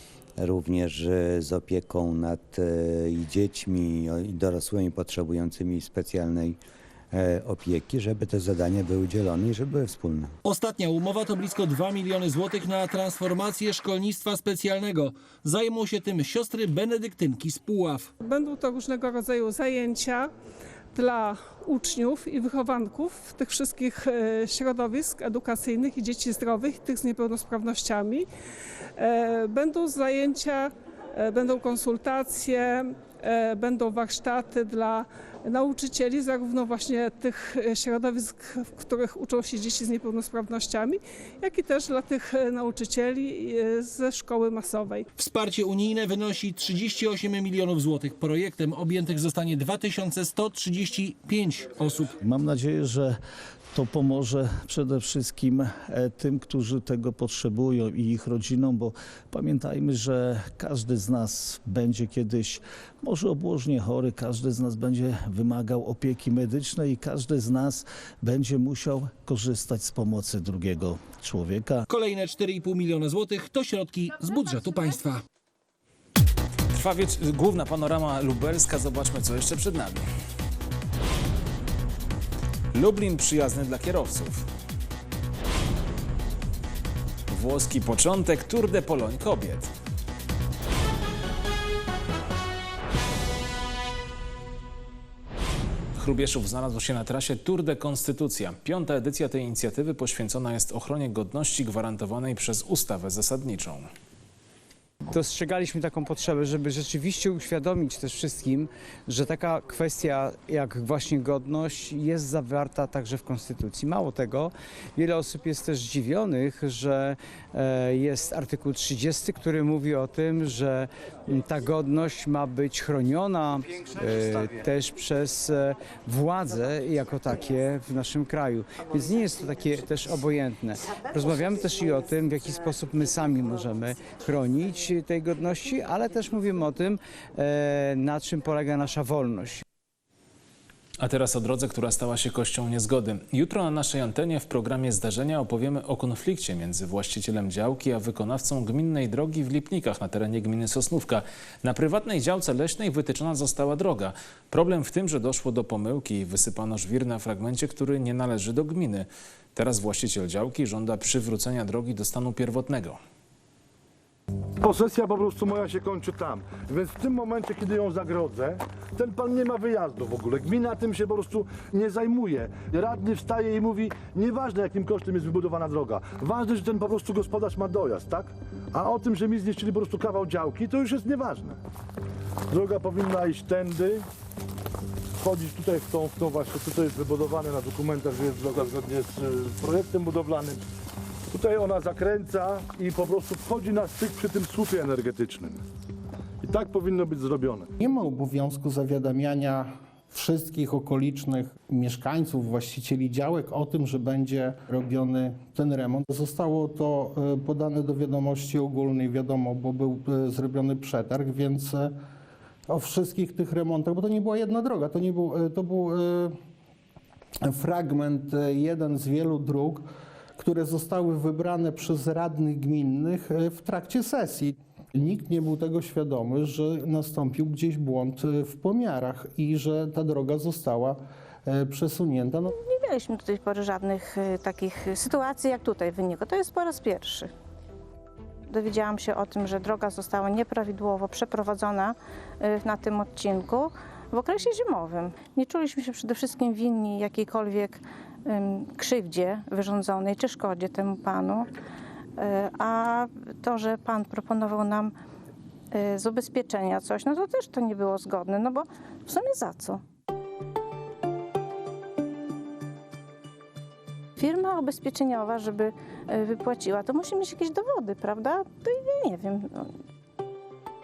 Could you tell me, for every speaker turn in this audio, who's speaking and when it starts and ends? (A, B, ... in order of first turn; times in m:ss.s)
0:00.4-0:06.6 A
0:07.1-0:10.3 A
0:10.4-0:18.1 B
0:18.2-0:20.3 C
0:20.9-0:28.3 C
0:29.0-0:45.1 C
0:45.2-0:52.1 B
0:52.2-0:53.2 D
0:53.7-1:11.8 D
1:11.9-1:15.2 B
1:16.7-1:20.0 E
1:22.7-1:24.4 E
1:27.3-1:29.7 E
1:36.0-1:43.9 E
1:45.1-2:19.6 F
2:21.0-2:43.0 E
2:44.6-3:01.6 G
3:02.5-3:04.0 G
3:05.2-3:10.6 G
3:11.3-3:15.6 G
3:16.4-3:17.7 G
3:17.8-3:32.0 H
3:32.7-3:36.4 H
3:37.4-3:52.5 H
3:52.5-3:57.3 I
3:58.5-4:11.5 I
4:12.2-4:14.9 I
4:15.7-4:19.8 I
4:24.2-4:29.7 I